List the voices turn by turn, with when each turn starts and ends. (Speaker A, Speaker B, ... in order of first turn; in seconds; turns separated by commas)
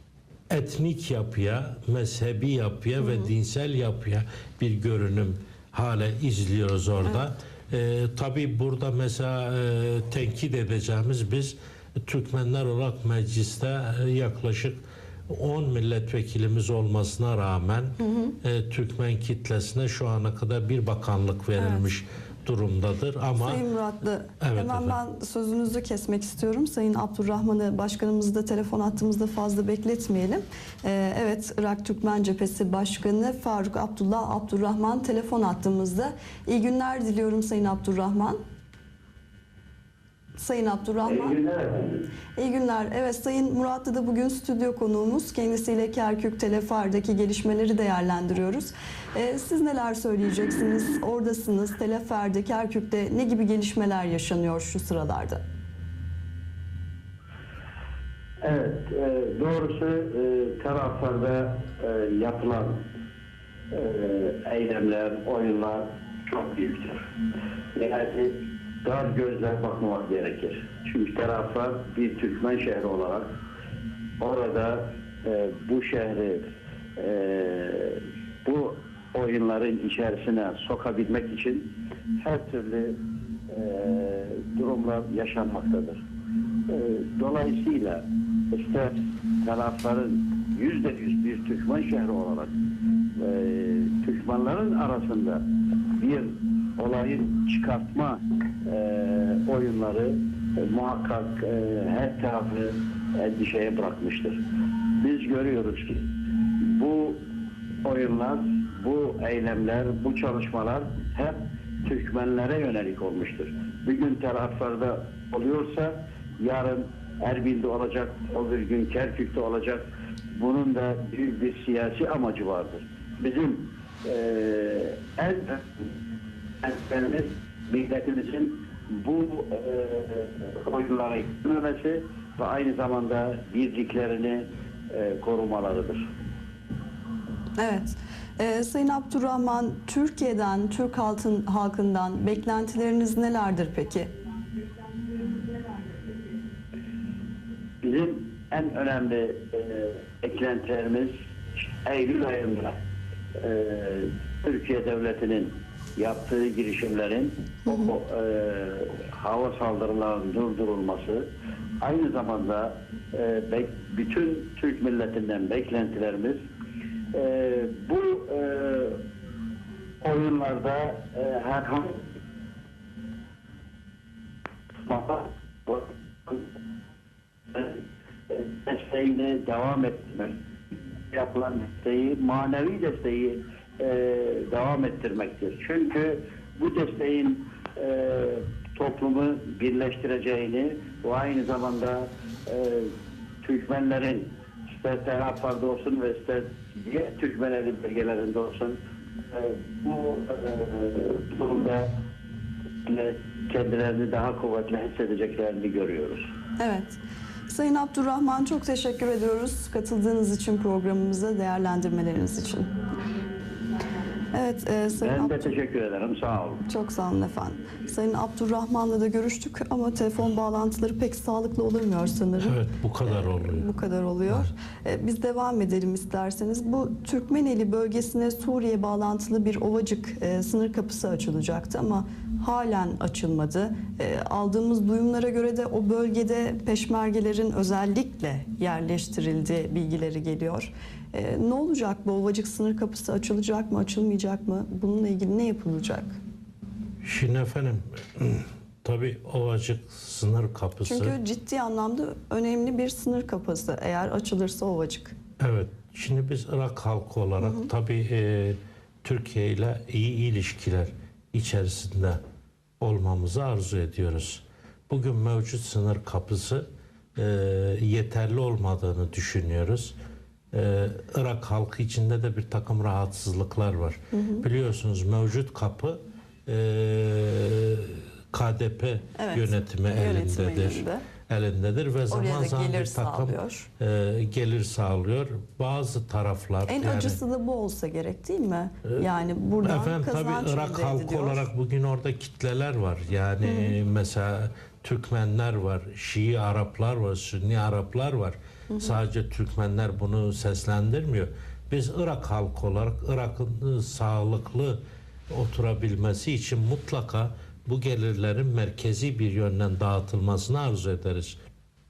Speaker A: 0.5-23.6, Speaker B: 3.0-3.3, Speaker B: 18.0-18.4, Speaker B: 21.6-21.9, Speaker B: 23.4-38.4, Speaker A: 24.4-25.0, Speaker B: 40.4-41.4, Speaker C: 41.0-42.1, Speaker B: 42.4-55.4, Speaker C: 58.4-62.9, Speaker C: 63.7-67.1, Speaker C: 67.8-73.3, Speaker C: 74.2-86.0, Speaker C: 86.7-92.5, Speaker C: 93.2-95.5, Speaker C: 96.0-104.4, Speaker C: 105.0-107.2, Speaker C: 107.8-125.9, Speaker C: 126.6-136.1, Speaker B: 137.6-144.1, Speaker C: 147.8-152.8, Speaker C: 153.3-161.3, Speaker C: 161.8-166.4, Speaker C: 167.1-169.0, Speaker C: 170.0-172.1, Speaker C: 174.8-176.5, Speaker C: 177.5-180.4, Speaker C: 181.1-198.8, Speaker C: 199.3-202.0, Speaker C: 202.8-206.3, Speaker B: 206.6-212.7, Speaker B: 214.3-215.5, Speaker C: 215.0-216.6, Speaker B: 216.7-246.2, Speaker A: 222.4-223.7, Speaker A: 247.0-251.2, Speaker B: 250.8-255.2, Speaker A: 255.4-262.2, Speaker B: 257.4-257.7, Speaker A: 262.8-269.9, Speaker A: 270.5-287.2, Speaker B: 274.1-274.5, Speaker B: 279.2-281.0, Speaker B: 282.1-283.7, Speaker B: 286.7-291.5, Speaker A: 289.6-311.4, Speaker B: 293.4-293.7, Speaker B: 298.7-299.0